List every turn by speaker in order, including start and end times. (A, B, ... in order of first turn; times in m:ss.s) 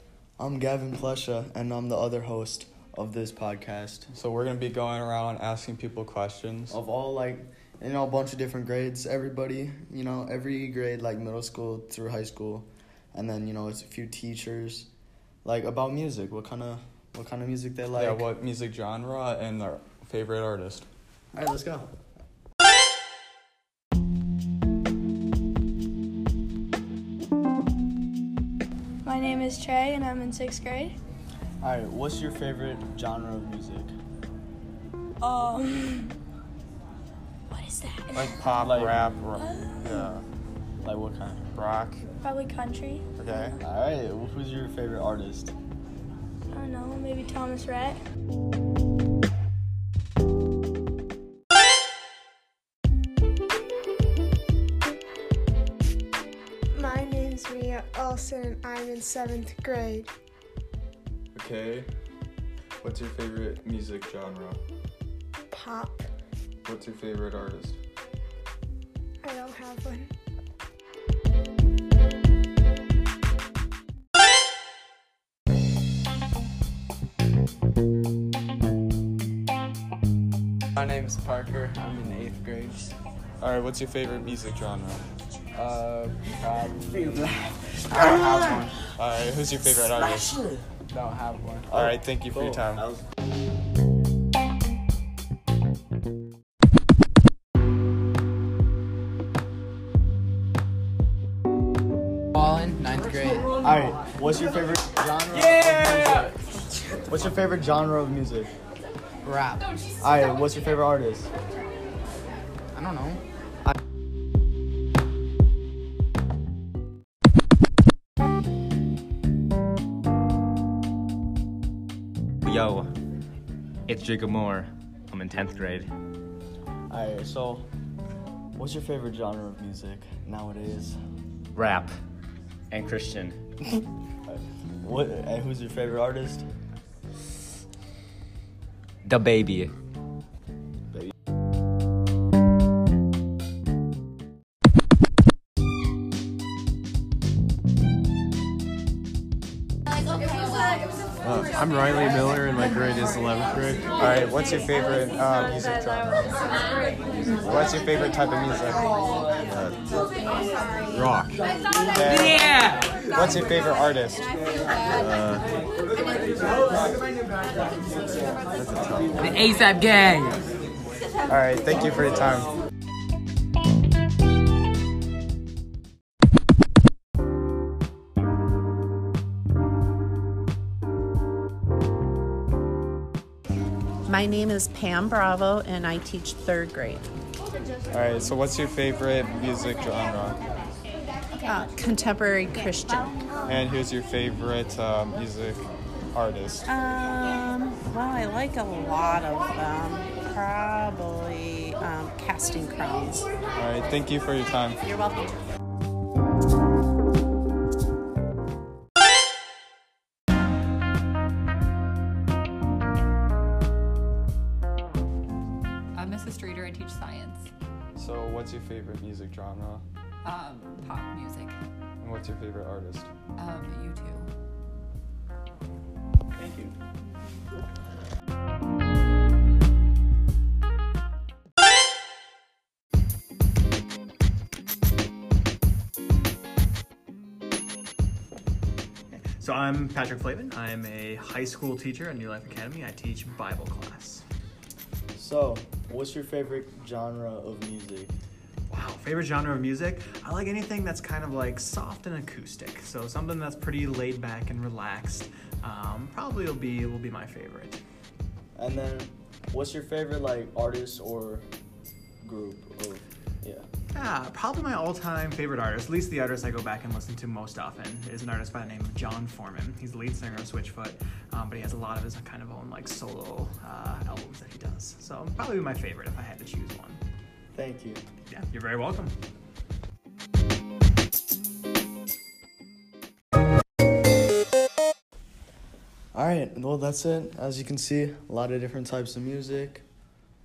0:00.4-0:04.1 A
0:04.1-0:06.8 B
0:06.7-0:14.9 A
0:15.4-0:18.2 A
0:18.0-0:20.9 B
0:21.3-0:21.9 A
0:29.0-0:31.0 C
0:31.6-0:33.9 A
0:35.2-0:36.2 C
0:37.5-0:38.4 C
0:38.1-0:40.2 B
0:38.6-0:39.0 A
0:40.8-0:41.4 A
0:41.5-0:42.0 B
0:42.2-0:43.5 C
0:43.2-0:43.6 B
0:43.6-0:45.5 A
0:46.5-0:48.0 C
0:56.7-1:00.1 D
1:01.3-1:01.9 B
1:02.8-1:04.6 B
1:05.5-1:06.1 D
1:06.6-1:07.8 B
1:09.2-1:10.1 D
1:20.8-1:22.9 E
1:23.4-1:25.0 B
1:25.6-1:28.8 E
1:29.0-1:30.4 B
1:30.9-1:31.7 E
1:31.7-1:33.0 A
1:31.7-1:32.8 B
1:42.4-1:43.6 E
1:43.6-1:46.2 A
1:47.1-1:48.5 A
1:49.2-1:49.6 E
1:50.0-1:51.3 A
1:52.7-1:53.2 E
2:02.5-2:02.9 F
2:03.9-2:05.9 F
2:06.9-2:07.7 A
2:08.6-2:11.0 A
2:11.6-2:11.9 F
2:12.7-2:13.4 F
2:14.3-2:16.5 A
2:19.0-2:19.7 F
2:31.5-2:33.8 G
2:34.0-2:36.4 B
2:37.4-2:38.9 B
2:39.5-2:39.8 F
2:40.9-2:41.3 F
2:42.0-2:42.5 B
2:43.1-2:44.3 B
2:45.0-2:45.4 F
2:48.6-2:49.1 B
2:51.3-2:52.5 B
3:04.1-3:07.1 H
3:07.9-3:10.4 B
3:11.4-3:13.2 H
3:13.5-3:15.6 B
3:16.1-3:16.6 B
3:16.7-3:23.3 H
3:23.6-3:24.8 B
3:24.8-3:25.4 H
3:36.0-3:37.5 I
3:38.0-3:39.8 B
3:40.2-3:41.6 I
3:42.0-3:43.1 B
3:43.4-3:44.3 I
3:46.4-3:46.7 A
3:59.1-4:04.2 J
4:05.2-4:08.1 A
4:08.7-4:17.8 J
4:18.6-4:21.5 A
4:22.2-4:23.7 A
4:23.9-4:37.0 J
4:37.5-4:38.0 A
4:38.3-4:39.2 J
4:46.1-4:49.8 A